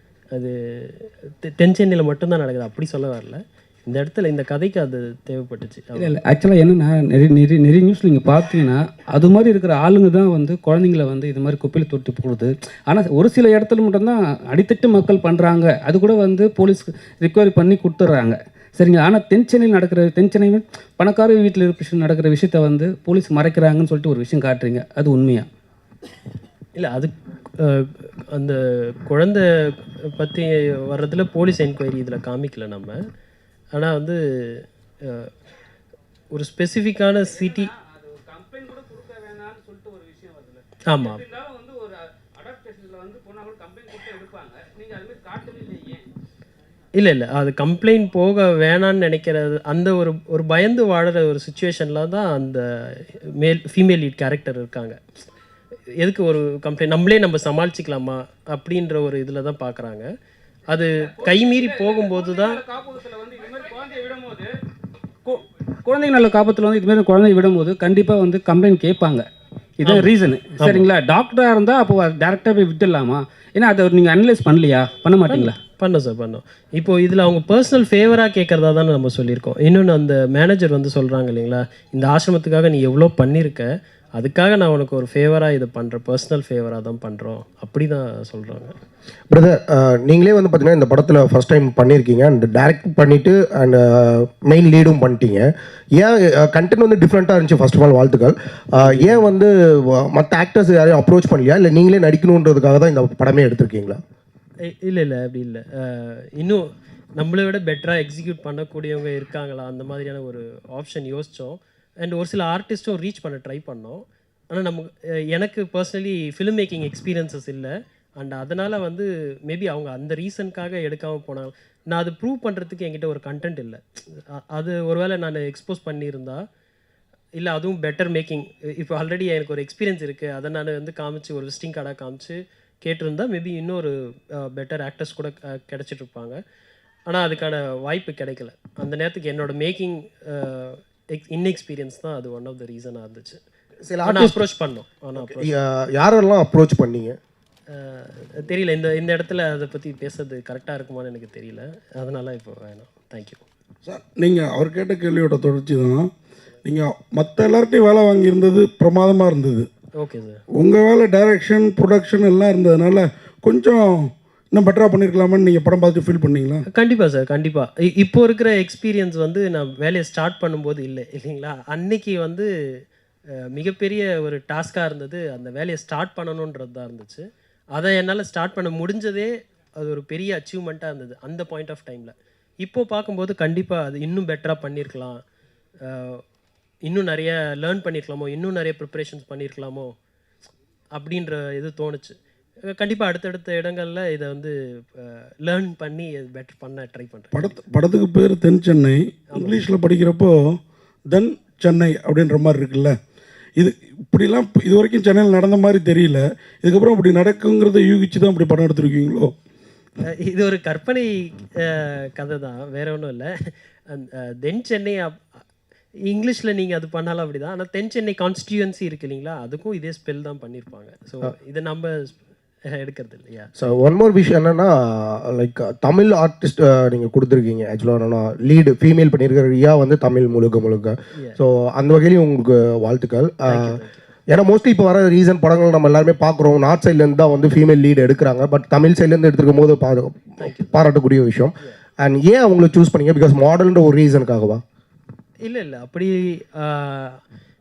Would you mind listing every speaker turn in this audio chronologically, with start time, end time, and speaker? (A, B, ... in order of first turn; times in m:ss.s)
0:00.3-0:06.2 A
0:06.0-0:25.5 B
0:26.8-0:33.0 A
0:33.7-0:35.3 A
0:36.3-0:37.7 A
0:37.1-0:46.1 B
0:40.9-0:41.2 A
0:46.9-0:55.0 A
0:56.0-1:00.1 A
1:00.7-1:02.6 A
1:01.1-1:04.5 B
1:05.2-1:09.2 B
1:09.8-1:15.5 B
1:09.8-1:10.8 A
1:15.3-1:28.8 A
1:29.3-1:44.0 C
1:38.9-1:39.2 A
1:44.6-2:06.4 A
2:07.3-2:16.4 A
2:17.1-2:23.4 A
2:23.8-2:24.4 C
2:24.0-2:25.5 A
2:25.1-2:27.2 C
2:27.7-2:33.4 A
2:33.8-2:36.1 D
2:36.6-2:39.7 D
2:40.0-2:40.4 A
2:40.5-2:46.6 D
2:46.7-2:52.5 A
2:53.4-3:05.2 A
3:05.8-3:06.2 A
3:06.8-3:09.9 A
3:10.9-3:17.6 A
3:17.3-3:20.6 D
3:21.1-3:23.0 D
3:23.6-3:29.3 D
3:30.0-3:35.2 A
3:36.1-3:42.2 A
3:42.7-3:43.5 A
3:43.6-4:04.6 C
3:53.5-3:54.0 A
4:00.4-4:00.8 A
4:05.4-4:07.2 A